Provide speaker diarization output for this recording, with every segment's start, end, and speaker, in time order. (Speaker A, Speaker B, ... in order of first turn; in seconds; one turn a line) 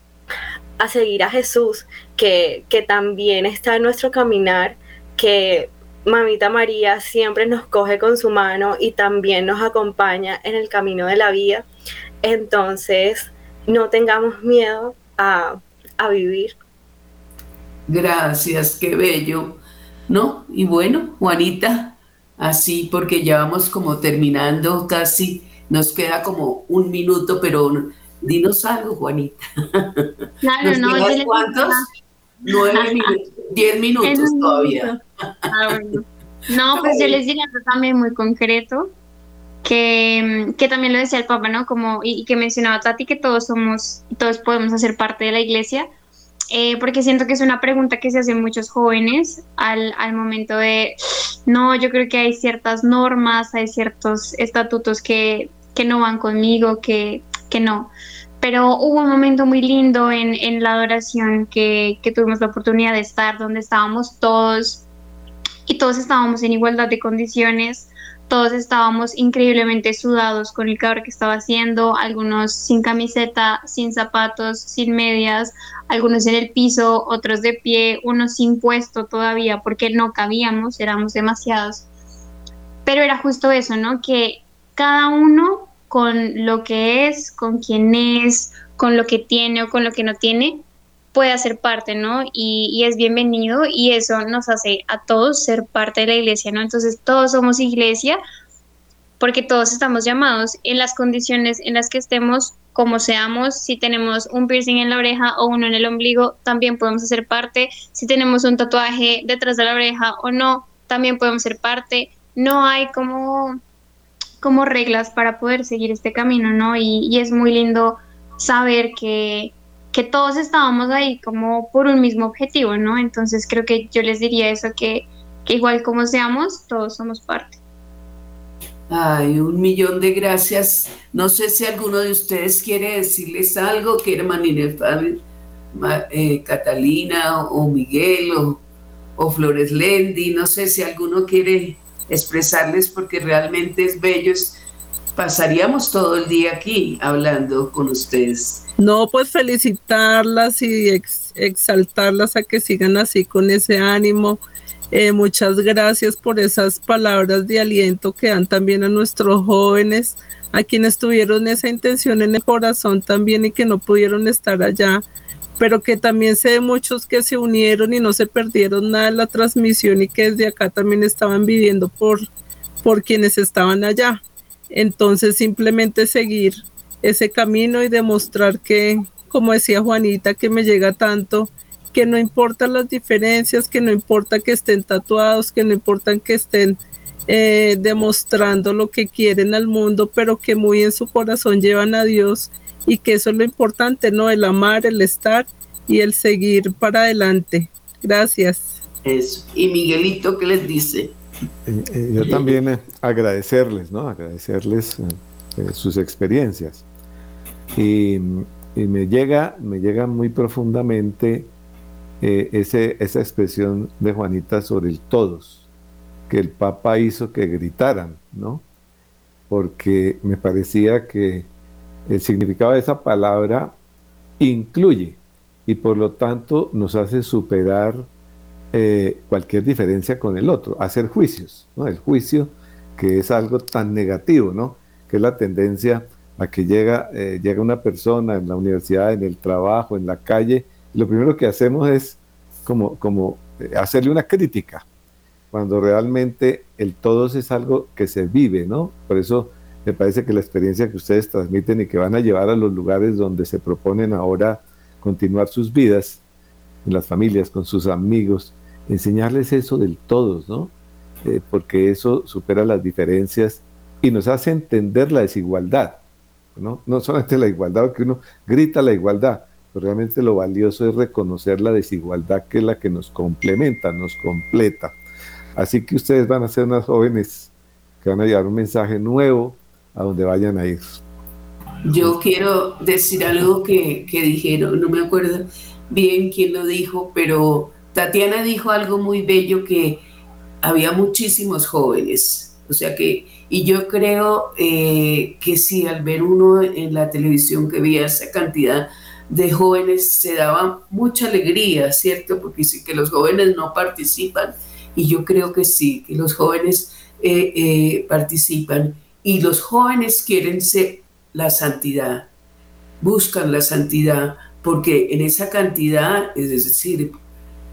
Speaker A: 0.8-11.7
Speaker A: 12.2-16.6
Speaker B: 17.9-30.1
Speaker C: 30.4-31.9
Speaker B: 30.6-31.9
Speaker B: 32.5-35.0
Speaker C: 32.5-33.1
Speaker C: 34.0-35.0
Speaker C: 35.5-38.9
Speaker B: 36.8-37.2
Speaker C: 39.6-45.9
Speaker C: 46.5-64.8
Speaker C: 65.7-81.9
Speaker C: 82.9-98.2
Speaker C: 99.2-113.6
Speaker C: 114.4-127.6
Speaker B: 128.9-138.6
Speaker B: 139.2-144.6
Speaker B: 145.2-148.7
Speaker D: 148.8-154.4
Speaker D: 154.9-165.0
Speaker D: 165.6-172.2
Speaker D: 172.8-198.8
Speaker B: 199.0-201.2
Speaker E: 201.7-206.8
Speaker B: 202.2-202.6
Speaker E: 207.8-211.5
Speaker E: 212.2-215.6
Speaker E: 216.3-218.7
Speaker E: 219.5-221.5
Speaker E: 222.1-223.8
Speaker E: 224.4-228.1
Speaker E: 228.7-244.8
Speaker E: 245.5-256.2
Speaker E: 256.9-266.0
Speaker E: 266.6-275.0
Speaker E: 275.6-277.5
Speaker E: 278.0-281.0
Speaker B: 281.9-290.0
Speaker B: 290.6-312.3
Speaker B: 313.0-317.2